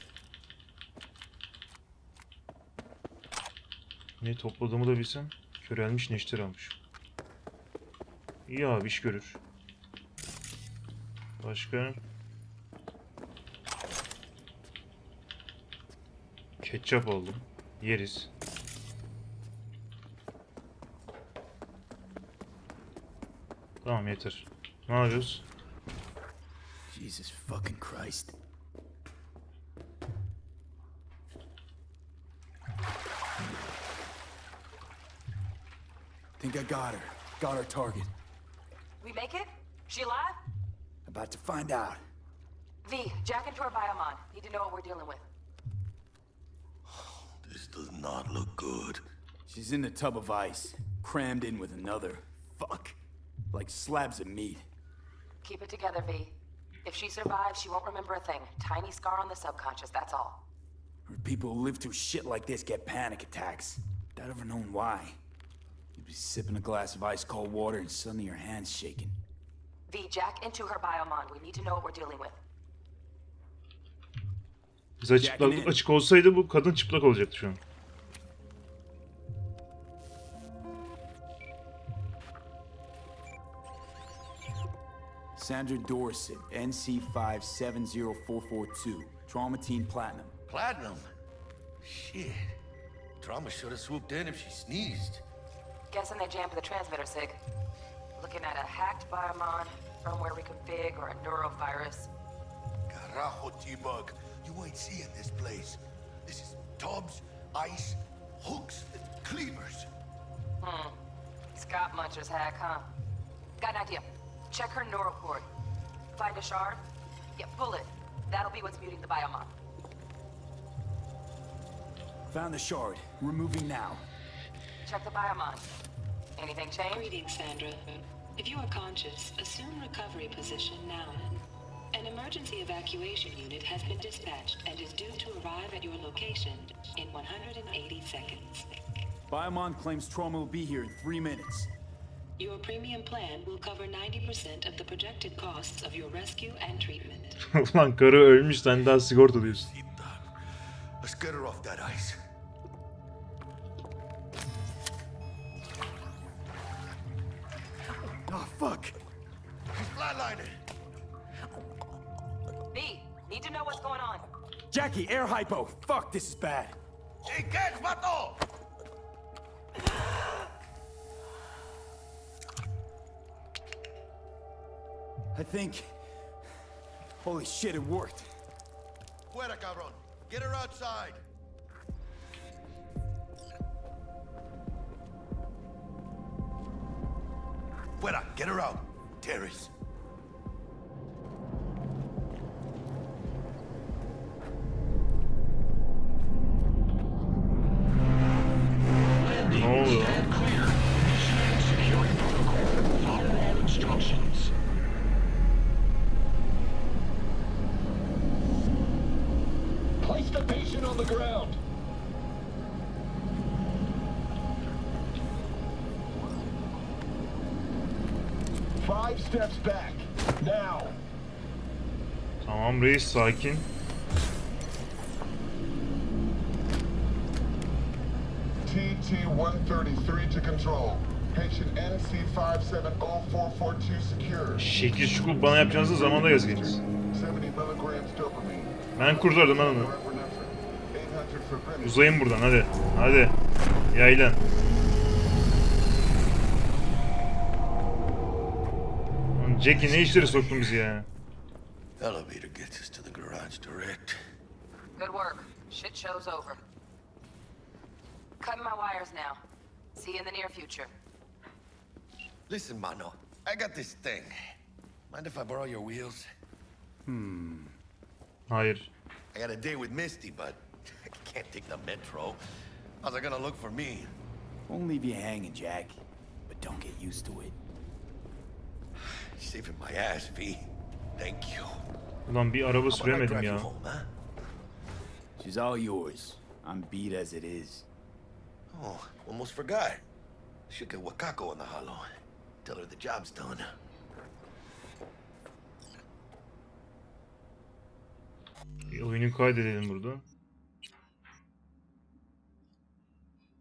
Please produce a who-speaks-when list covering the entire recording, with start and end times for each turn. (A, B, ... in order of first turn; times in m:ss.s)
0:04.2-0:06.8 A
0:08.5-0:09.4 A
0:11.4-0:12.0 A
0:16.6-0:18.3 A
0:23.8-0:25.4 A
0:26.9-0:28.3 B
0:36.4-0:38.1 B
0:39.0-0:40.4 C
0:41.0-0:42.0 B
0:42.8-0:45.2 C
0:46.9-0:49.0 D
0:49.4-0:53.0 B
0:53.5-0:54.6 B
0:55.4-1:00.4 C
1:01.0-1:05.2 B
1:05.9-1:09.2 B
1:09.9-1:12.4 C
1:15.0-1:17.6 A
1:15.2-1:15.8 B
1:25.4-1:30.3 B
1:30.5-1:31.0 D
1:31.8-1:32.5 D
1:33.2-1:35.2 D
1:35.9-1:37.4 C
1:38.2-1:42.1 C
1:42.9-1:49.9 D
1:50.6-1:50.9 C
1:51.5-1:52.8 C
1:53.6-1:55.5 C
1:56.1-1:56.8 C
1:57.4-1:59.5 C
2:02.3-2:04.1 B
2:04.8-2:05.6 C
2:06.4-2:07.1 C
2:07.0-2:11.3 E
2:11.9-2:18.6 E
2:13.8-2:14.2 C
2:17.1-2:18.3 C
2:19.3-2:21.7 B
2:22.4-2:27.3 E
2:24.1-2:25.2 C
2:27.4-2:29.7 A
2:29.7-2:30.2 D
2:31.0-2:32.2 D
2:38.2-2:39.0 B
2:39.8-2:40.6 D
2:42.7-2:44.2 C
2:44.7-2:46.8 B
2:47.2-2:48.4 D
2:55.3-2:55.9 B
2:57.2-2:58.3 B
2:59.3-3:01.2 D
3:08.0-3:09.7 D
3:19.4-3:20.3 A
3:20.3-3:20.6 D
3:21.4-3:22.3 D
3:23.0-3:24.2 D
3:23.4-3:24.1 F
3:30.0-3:31.6 F
3:38.8-3:41.0 F
3:42.4-3:43.7 A
3:48.6-3:54.6 F
3:54.6-3:56.8 A
3:57.1-4:02.0 F
3:59.0-3:59.9 A
4:01.8-4:03.4 A
4:03.9-4:04.4 A
4:09.4-4:11.1 A
4:09.7-4:10.8 D
4:12.0-4:14.2 D
4:15.0-4:16.6 C
4:18.4-4:19.4 C
4:19.9-4:20.9 C
4:22.5-4:24.3 D
4:25.1-4:26.2 D
4:27.0-4:27.8 B
4:28.5-4:28.9 A
4:29.3-4:32.4 D
4:33.0-4:34.1 D
4:34.7-4:37.6 B
4:39.0-4:41.8 D
4:42.3-4:43.7 A
4:42.9-4:44.1 D
4:45.4-4:47.9 B
4:48.7-4:50.0 D
4:50.7-4:52.1 D
4:52.6-4:53.7 D
4:58.9-5:00.2 A